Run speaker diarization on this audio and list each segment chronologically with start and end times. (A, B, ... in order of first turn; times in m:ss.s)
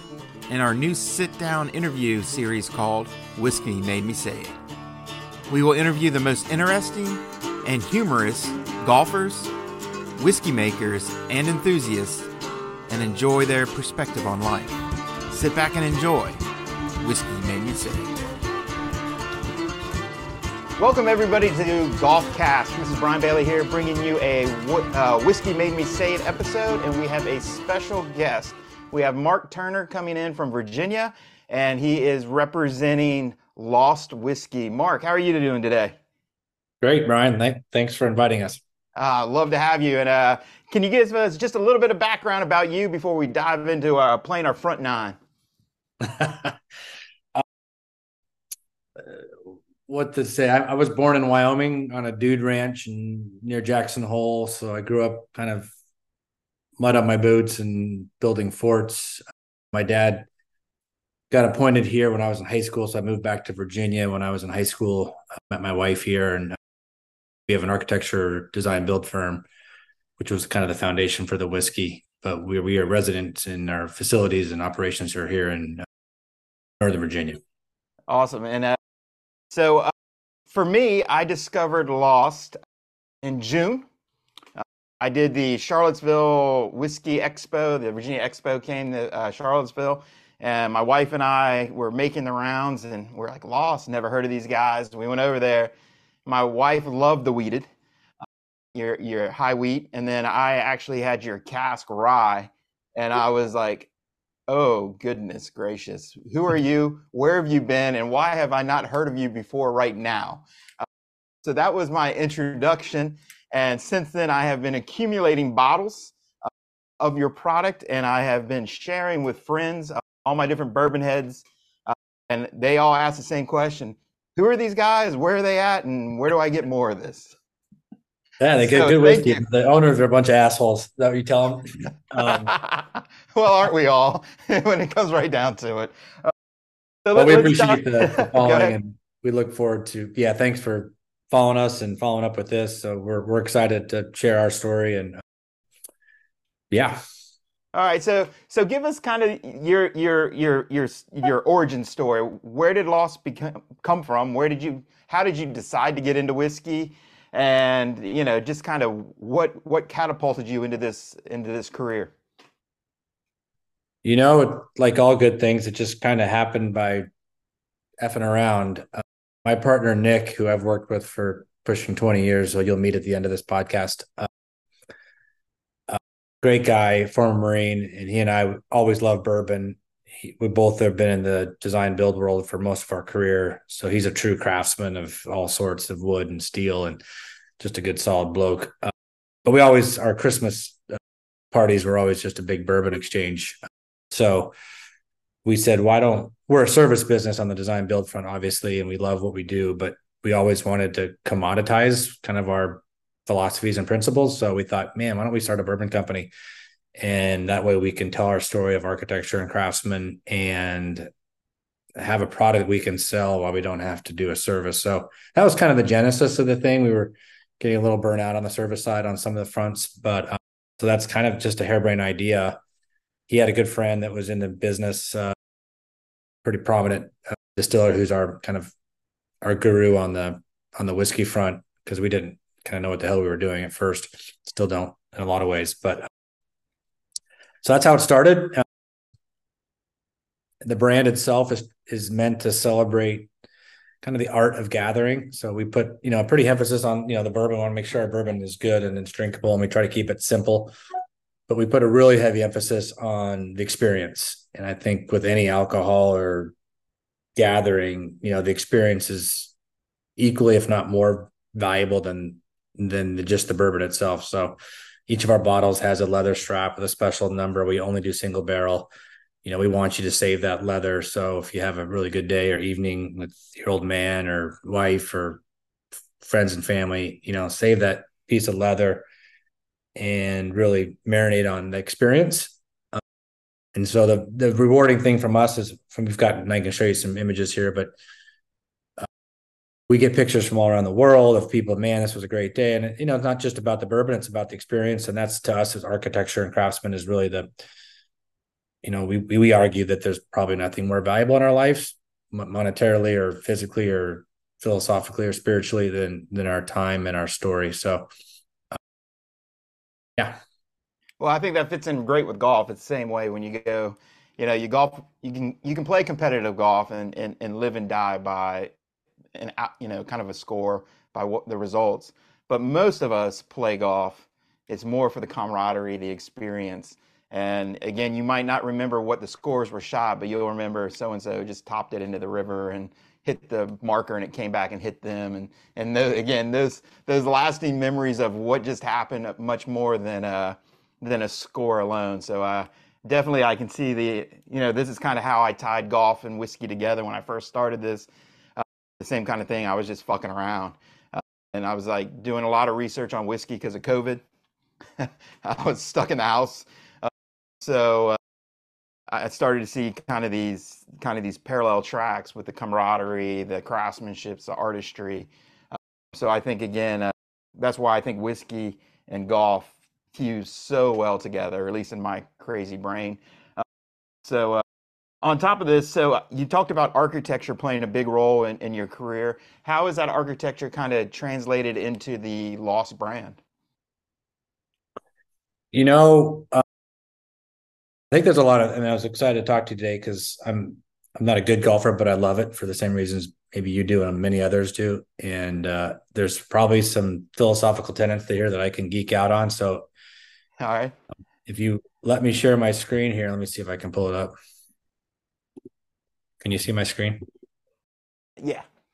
0:00.5-0:04.6 A
0:05.5-0:09.5 A
0:10.2-0:12.3 A
0:12.9-0:16.4 A
0:17.0-0:18.2 A
0:20.8-0:36.0 A
0:36.8-0:38.6 B
0:39.0-0:45.2 A
0:46.0-0:46.5 B
0:49.0-0:55.7 B
0:56.8-1:00.3 B
1:01.3-1:06.6 B
1:07.5-1:09.5 B
1:10.2-1:15.9 B
1:16.8-1:17.4 B
1:18.1-1:18.8 A
1:19.5-1:19.9 A
1:20.5-1:22.6 A
1:23.2-1:23.9 A
1:24.6-1:35.7 A
1:36.2-1:37.7 A
1:38.7-1:43.9 A
1:44.5-1:50.8 A
1:51.4-1:56.5 A
1:57.0-2:07.4 A
2:08.4-2:12.5 B
2:08.6-2:09.4 A
2:12.2-2:16.3 A
2:17.0-2:18.8 A
2:17.1-2:25.2 B
2:26.7-2:27.0 B
2:27.7-2:42.1 A
2:44.0-2:47.0 B
2:48.0-2:54.3 B
2:55.9-3:07.0 B
3:07.6-3:08.9 B
3:09.4-3:11.0 B
3:11.5-3:13.6 B
3:14.1-3:14.5 B
3:15.4-3:26.3 B
3:27.0-3:31.1 B
3:32.0-3:42.6 B
3:43.3-3:45.4 B
3:46.4-3:48.7 B
3:49.4-3:56.1 B
3:57.6-3:58.6 B
4:00.6-4:03.3 B
4:04.0-4:10.7 B
4:11.5-4:16.5 B
4:17.4-4:19.5 B
4:20.2-4:28.9 B
4:29.4-4:35.4 B
4:36.2-4:39.0 B
4:40.0-4:43.0 B
4:43.7-4:47.9 B
4:49.9-4:57.5 B
4:58.8-5:08.1 B
5:11.2-5:18.7 A
5:19.3-5:54.2 A
5:55.0-5:58.2 A
5:59.1-6:05.3 A
6:06.1-6:13.6 A
6:14.2-6:14.6 A
6:15.2-6:23.4 A
6:25.7-6:26.6 B
6:28.1-6:39.9 B
6:40.6-6:40.9 A
6:41.4-6:44.3 B
6:46.4-6:47.2 B
6:48.4-6:48.6 A